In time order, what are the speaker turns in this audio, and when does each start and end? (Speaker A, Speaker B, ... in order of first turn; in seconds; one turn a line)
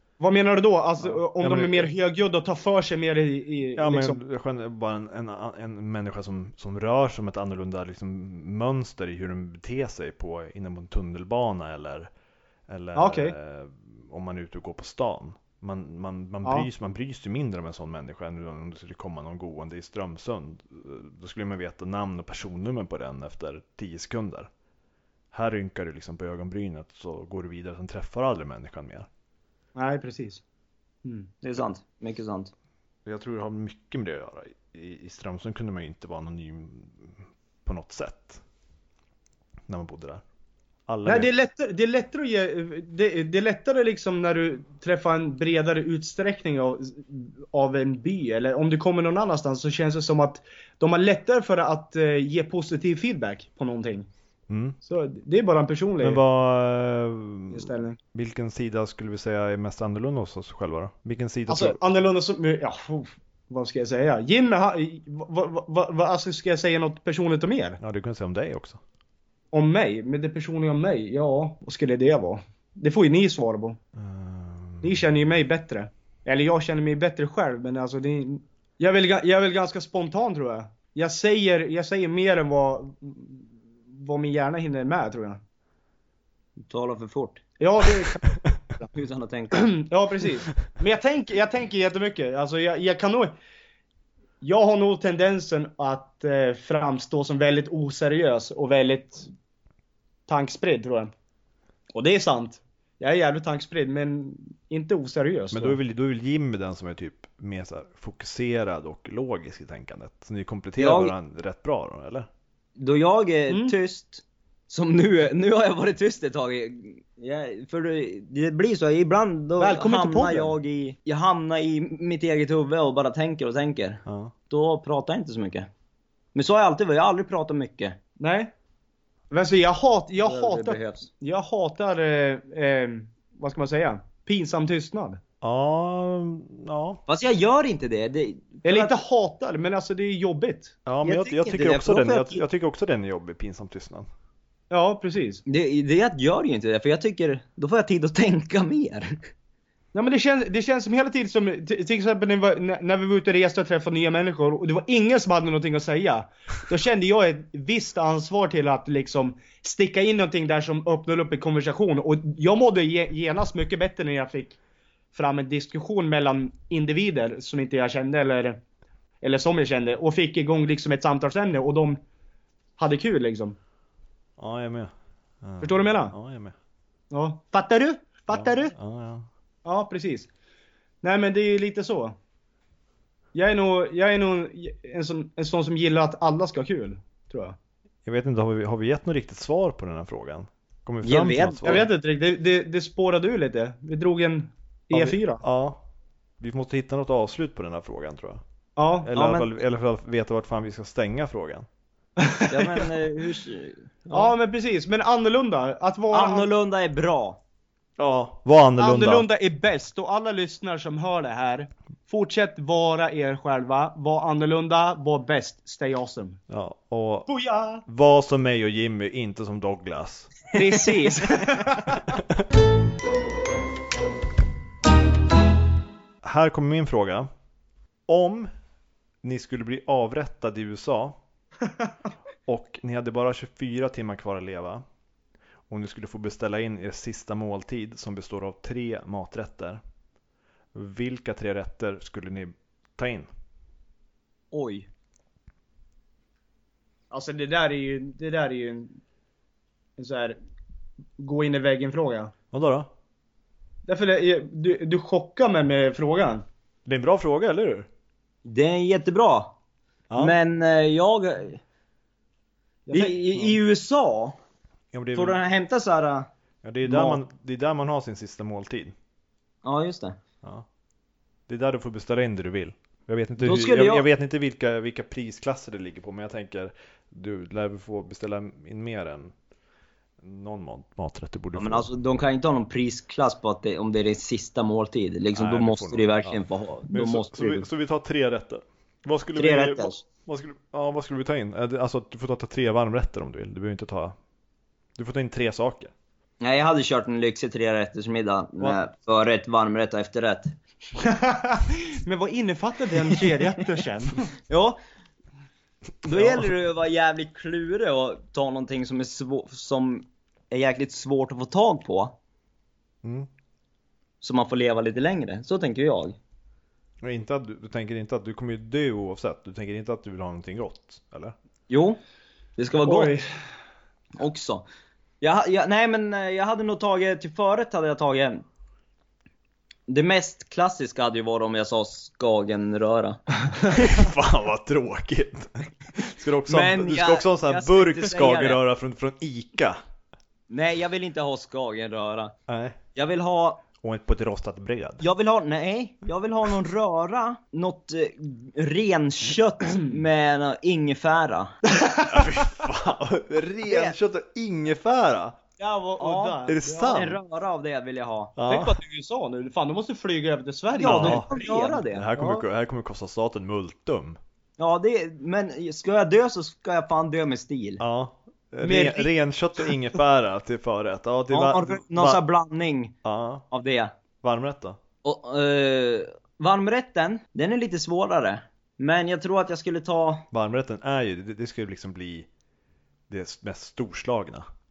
Speaker A: 0.2-4.2
Speaker B: 1.0-1.9
Speaker B: 3.8-12.1
Speaker B: 12.7-24.5
Speaker A: 13.0-13.3
Speaker B: 25.3-29.1
Speaker A: 29.8-30.4
Speaker A: 31.0-31.3
Speaker C: 31.4-32.5
Speaker B: 33.0-38.4
Speaker B: 39.7-40.2
Speaker B: 40.9-41.3
Speaker A: 41.1-54.1
Speaker B: 54.5-54.8
Speaker A: 54.8-56.2
Speaker B: 56.0-61.8
Speaker A: 57.5-58.0
Speaker A: 61.5-67.8
Speaker B: 67.8-68.8
Speaker A: 69.5-73.8
Speaker B: 74.0-75.0
Speaker A: 74.8-85.4
Speaker C: 86.6-87.4
Speaker A: 87.6-88.8
Speaker C: 88.9-89.8
Speaker A: 89.5-93.3
Speaker A: 94.4-99.3
Speaker A: 100.3-101.1
Speaker A: 101.9-105.8
Speaker B: 105.5-112.3
Speaker C: 110.8-111.2
Speaker C: 112.8-125.7
Speaker A: 113.5-113.8
Speaker A: 119.6-120.5
Speaker B: 124.1-124.3
Speaker C: 126.3-128.0
Speaker A: 128.2-128.5
Speaker A: 129.3-135.2
Speaker C: 130.2-131.1
Speaker B: 135.4-137.0
Speaker C: 137.1-138.9
Speaker A: 138.6-140.8
Speaker B: 140.9-144.1
Speaker C: 141.0-142.4
Speaker A: 144.7-145.4
Speaker C: 145.5-149.2
Speaker A: 149.9-164.6
Speaker A: 165.1-168.6
Speaker A: 169.2-172.0
Speaker A: 172.8-173.6
Speaker B: 174.4-174.9
Speaker B: 175.4-176.6
Speaker A: 175.6-176.1
Speaker A: 177.1-178.8
Speaker B: 178.3-179.3
Speaker A: 179.7-180.3
Speaker A: 181.0-182.2
Speaker A: 183.3-187.6
Speaker B: 188.1-191.9
Speaker C: 191.0-191.8
Speaker A: 191.6-195.4
Speaker B: 194.9-195.8
Speaker B: 196.4-198.4
Speaker A: 198.8-199.2
Speaker B: 199.0-201.7
Speaker C: 199.2-199.5
Speaker A: 202.2-202.9
Speaker C: 202.5-204.3
Speaker A: 204.1-206.5
Speaker C: 206.1-207.4
Speaker B: 208.0-209.3
Speaker A: 208.8-216.4
Speaker B: 216.5-217.3
Speaker A: 217.3-217.8
Speaker B: 217.8-220.4
Speaker A: 220.5-222.0
Speaker B: 222.1-222.4
Speaker B: 226.2-227.3
Speaker B: 228.1-228.5
Speaker B: 229.2-231.2
Speaker B: 232.5-234.8
Speaker B: 235.7-239.8
Speaker B: 240.7-243.3
Speaker C: 244.5-244.9
Speaker A: 247.1-249.0
Speaker A: 250.0-250.4
Speaker A: 251.2-252.3
Speaker B: 252.5-252.9
Speaker A: 253.9-256.4
Speaker B: 256.9-257.9
Speaker C: 258.4-259.6
Speaker B: 260.1-260.4
Speaker C: 260.2-261.6
Speaker A: 262.9-263.5
Speaker C: 262.9-264.4
Speaker B: 264.9-265.4
Speaker C: 265.1-266.3
Speaker B: 266.6-268.9
Speaker C: 266.9-267.2
Speaker C: 269.6-270.2
Speaker B: 271.5-279.3
Speaker C: 273.4-274.1
Speaker B: 280.2-281.9
Speaker C: 281.6-287.7
Speaker B: 285.4-294.2
Speaker C: 289.4-290.0
Speaker B: 295.0-295.9
Speaker C: 296.4-300.5
Speaker A: 301.0-304.3
Speaker C: 304.5-304.8
Speaker C: 306.0-312.1
Speaker B: 306.1-306.5
Speaker B: 313.0-313.3
Speaker C: 314.2-316.2
Speaker B: 317.0-321.4
Speaker C: 321.7-322.0
Speaker C: 322.6-323.2
Speaker A: 322.9-323.2
Speaker C: 324.2-324.6
Speaker C: 325.2-328.4
Speaker C: 329.9-333.2
Speaker B: 333.7-339.8
Speaker C: 336.5-338.6
Speaker C: 340.5-342.4
Speaker B: 342.5-342.8
Speaker C: 342.9-343.6
Speaker B: 343.8-345.1
Speaker C: 345.0-351.5
Speaker A: 351.8-352.3
Speaker B: 352.1-355.4
Speaker C: 353.7-353.9
Speaker A: 355.6-357.1
Speaker C: 356.0-358.3
Speaker B: 356.5-357.2
Speaker B: 358.4-358.8
Speaker A: 358.5-362.4
Speaker C: 360.7-362.1
Speaker B: 360.9-361.3
Speaker B: 361.9-364.2
Speaker C: 364.6-367.8
Speaker B: 367.8-372.2
Speaker A: 368.6-369.1
Speaker C: 371.3-373.0
Speaker B: 373.0-373.4
Speaker C: 373.5-373.9
Speaker B: 374.2-374.8
Speaker C: 375.0-380.3
Speaker B: 380.3-382.3
Speaker B: 383.1-384.5